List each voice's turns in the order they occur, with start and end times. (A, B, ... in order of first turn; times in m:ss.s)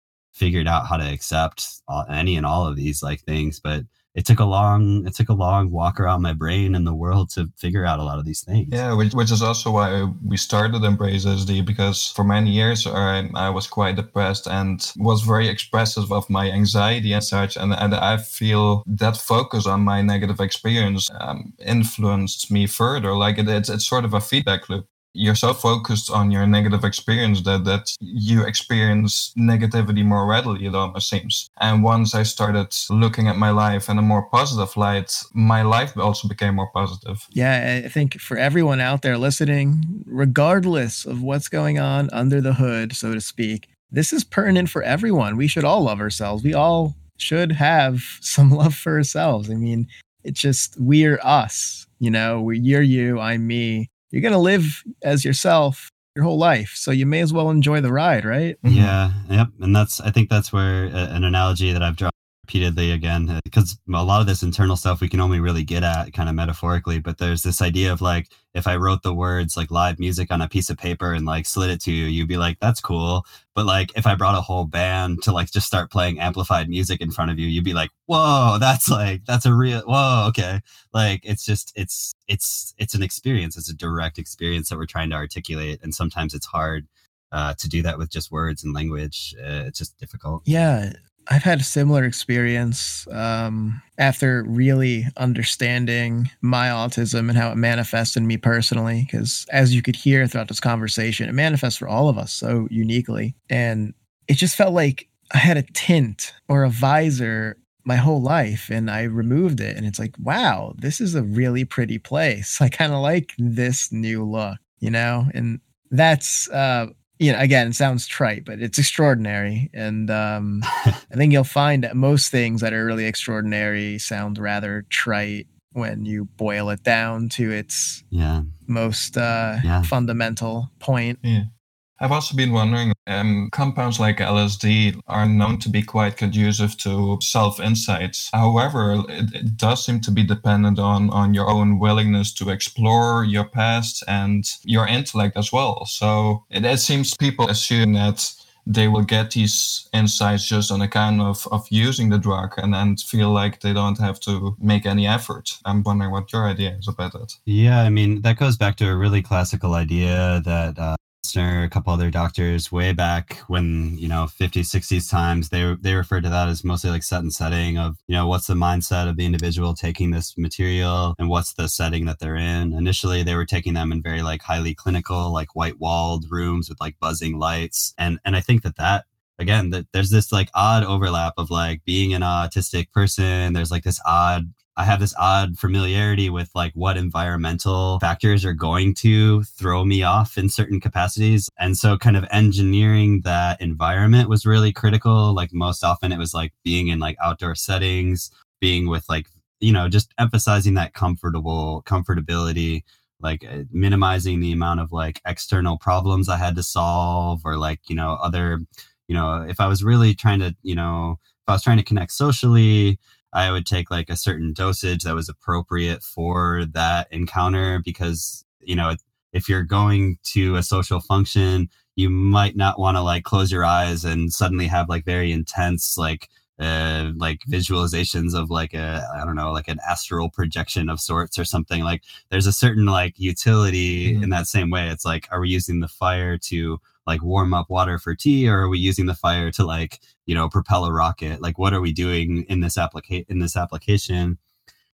0:00.3-0:08.8 A
0:08.7-0:37.2 B
0:37.3-0:58.6 C
0:58.6-0:58.9 B
0:58.6-1:30.4 A
1:30.4-2:08.0 C
2:08.1-2:08.5 A
2:08.7-2:11.2 C
2:09.6-2:09.9 A
2:11.2-2:11.5 B
2:12.0-2:37.4 B
2:37.5-4:04.4 A
3:54.0-3:54.3 B